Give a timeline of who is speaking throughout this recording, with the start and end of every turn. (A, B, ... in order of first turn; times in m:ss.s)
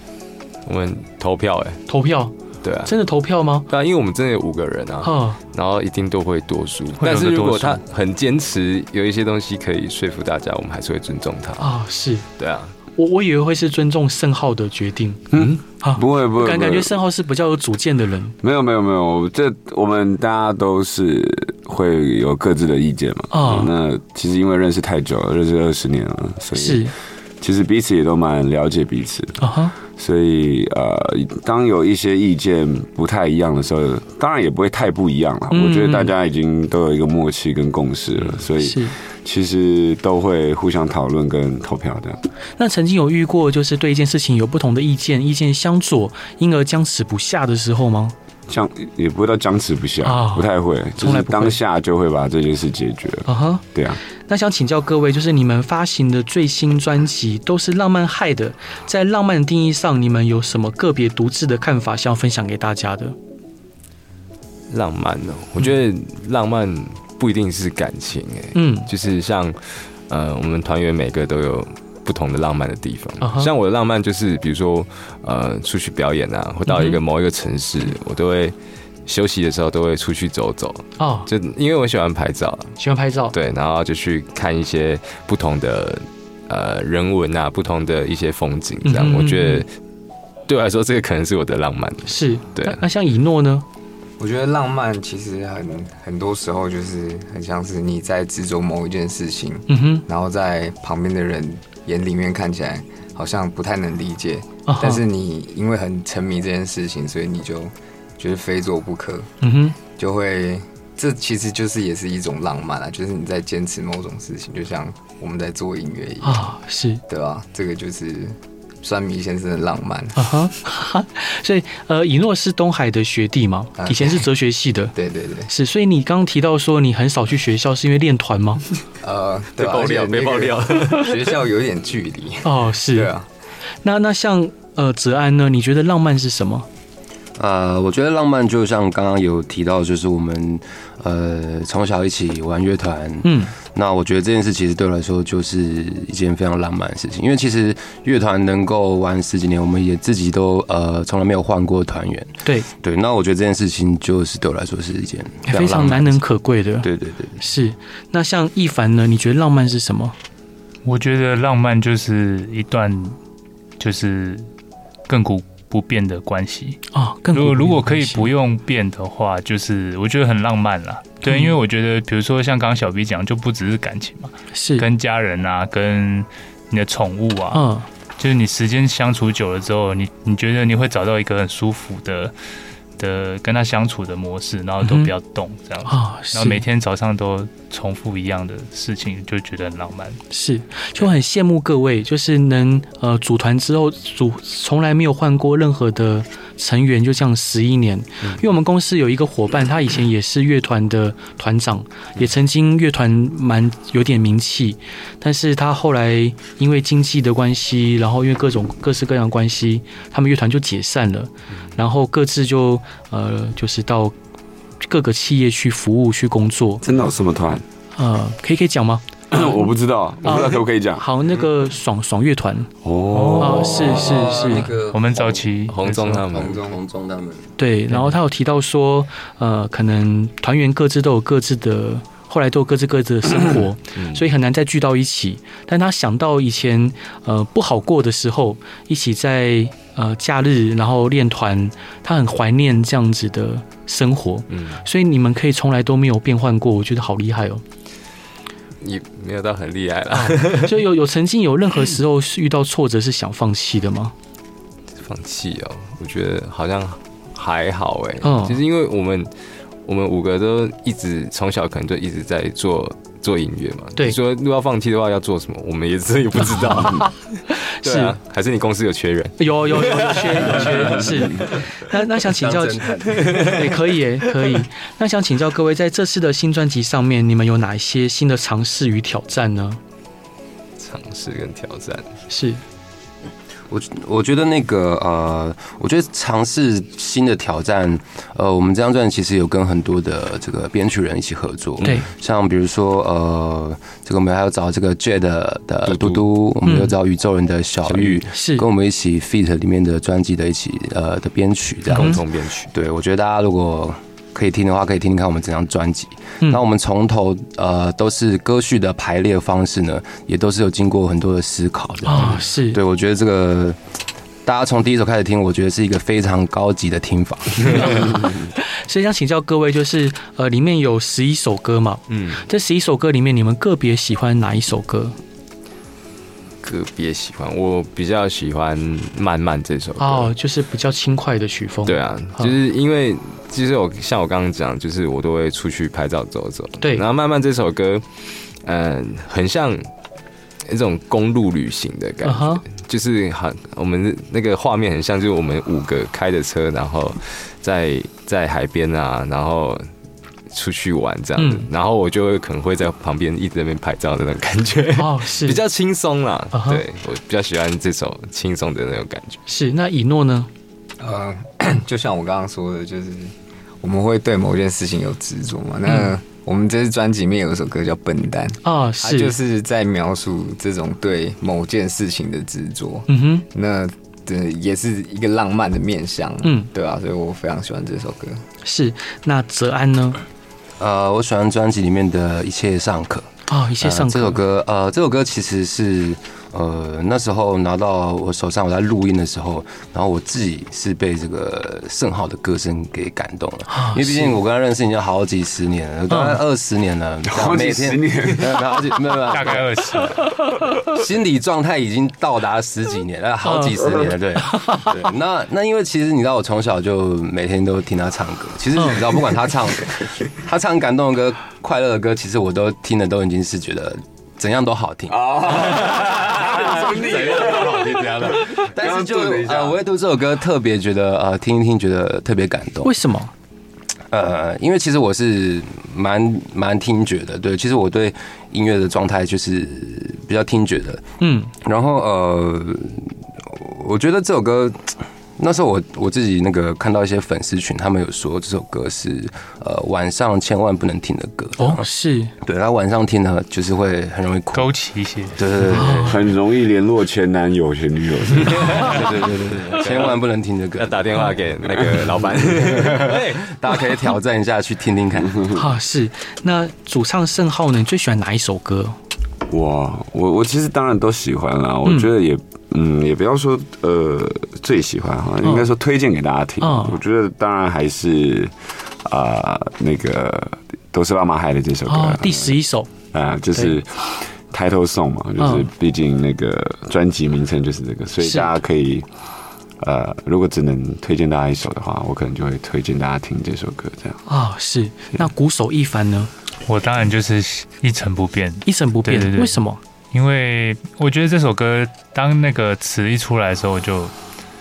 0:00.7-0:01.8 A
0:01.9-0:02.3 B
0:02.6-0:03.0 A
0:02.8-0:03.7 B
0:03.7-0:11.7 A
0:05.0-0:05.4 B
0:07.0-0:07.8 C
0:11.6-0:12.2 B
0:12.4-0:12.8 A
0:12.9-0:15.2 B
0:15.3-0:16.9 D
0:15.8-0:18.3 B
0:18.4-0:42.2 D
0:23.3-0:23.7 B
0:26.6-0:26.9 B
0:29.4-0:29.7 B
0:35.5-0:36.1 B
0:38.6-0:38.9 B
0:42.6-0:48.1 B
0:48.5-0:54.0 D
0:50.0-0:51.6 B
0:53.2-0:53.6 B
0:54.3-1:03.2 B
1:04.7-1:18.5 A
1:08.5-1:08.9 B
1:13.2-1:13.5 B
1:16.7-1:17.0 B
1:19.1-1:22.8 A
1:21.0-1:21.3 B
1:22.8-1:23.3 B
1:23.3-1:29.7 A
1:28.8-1:29.6 B
1:30.5-1:32.8 A
1:32.1-1:33.6 B
1:34.2-1:49.3 E
1:39.7-1:40.0 B
1:44.7-1:45.0 B
1:49.4-1:49.8 B
1:50.0-1:56.5 E
1:56.2-1:57.0 B
1:57.1-2:00.2 E
2:00.2-2:04.9 B
2:03.8-2:04.2 E
2:04.9-2:05.5 E
2:05.5-2:08.6 B
2:09.0-2:13.3 E
2:09.6-2:11.4 A
2:12.4-2:13.1 B
2:13.8-2:16.7 B
2:17.4-2:36.2 F
2:23.2-2:23.5 B
2:35.5-2:36.9 B
2:36.8-2:37.4 F
2:37.4-2:40.2 B
2:40.8-2:43.2 C
2:43.8-2:44.5 C
2:45.1-2:57.6 C
2:46.9-2:48.3 B
2:51.2-2:51.5 B
2:54.5-2:54.8 B
2:57.5-2:57.8 B
2:58.2-3:02.3 C
3:03.0-3:10.2 C
3:04.8-3:05.1 B
3:05.8-3:06.6 B
3:10.3-3:34.1 B
3:34.8-3:36.8 B
3:36.8-3:37.6 D
3:38.0-3:39.6 B
3:39.3-3:41.0 D
3:40.2-3:42.7 B
3:42.8-3:44.1 D
3:43.1-3:45.9 C
3:43.3-3:44.7 B
3:43.7-3:47.5 F
3:45.7-3:46.6 A
3:47.6-4:07.6 B
3:54.0-3:54.2 A
4:04.5-4:04.8 A
4:08.8-4:10.8 A
4:10.1-4:14.1 B
4:15.0-4:19.3 A
4:18.2-4:18.6 B
4:19.8-4:27.1 A
4:26.6-4:28.1 B
4:27.8-4:31.5 A
4:29.4-4:39.8 B
4:32.2-4:33.7 F
4:40.8-4:42.2 A
4:42.3-4:42.6 B
4:43.7-5:13.8 F
4:56.6-4:56.9 B
4:57.9-4:58.2 A
4:58.3-4:58.6 B
5:01.9-5:02.7 A
5:12.0-5:12.8 B
5:14.4-5:18.3 F
5:17.8-5:25.2 B
5:22.1-5:22.4 A
5:26.6-5:30.3 A
5:30.0-5:32.5 B
5:31.9-5:39.9 A
5:40.6-5:49.9 A
5:42.2-5:42.6 B
5:50.5-5:59.4 A
5:51.4-5:51.7 B
5:55.0-5:55.6 B
5:56.5-5:56.8 B
5:59.5-6:00.5 B
6:01.0-6:18.4 E
6:08.6-6:09.3 B
6:13.1-6:13.4 B
6:16.4-6:16.7 B
6:18.6-6:20.2 B
6:20.8-6:40.2 F
6:23.5-6:24.4 B
6:33.7-6:34.4 B
6:36.1-6:36.4 B
6:37.2-6:38.8 D
6:39.3-6:40.3 C
6:40.8-7:02.9 F
6:43.4-6:43.8 B
6:44.5-6:44.9 B
6:55.1-6:59.8 D
6:55.9-6:58.4 A
7:02.8-7:03.3 B
7:04.1-7:11.1 F
7:11.2-7:11.5 B
7:11.6-7:21.8 F
7:21.6-7:22.3 B
7:22.4-7:24.7 F
7:24.5-7:25.4 C
7:25.4-7:26.2 F
7:25.7-7:26.2 B
7:26.0-7:29.5 D
7:28.6-7:30.2 A
7:28.8-7:31.3 F
7:30.8-7:33.5 A
7:32.5-7:35.5 F
7:35.5-7:39.0 B
7:39.5-7:52.6 D
7:45.4-7:45.7 B
7:46.6-7:47.0 B
7:51.9-7:52.9 B
7:53.1-7:59.1 D
7:55.4-7:55.7 B
7:58.2-7:58.5 B
7:59.8-8:04.2 D
8:04.3-8:06.3 B
8:06.6-8:09.6 C
8:08.6-8:09.8 B
8:10.1-8:14.1 C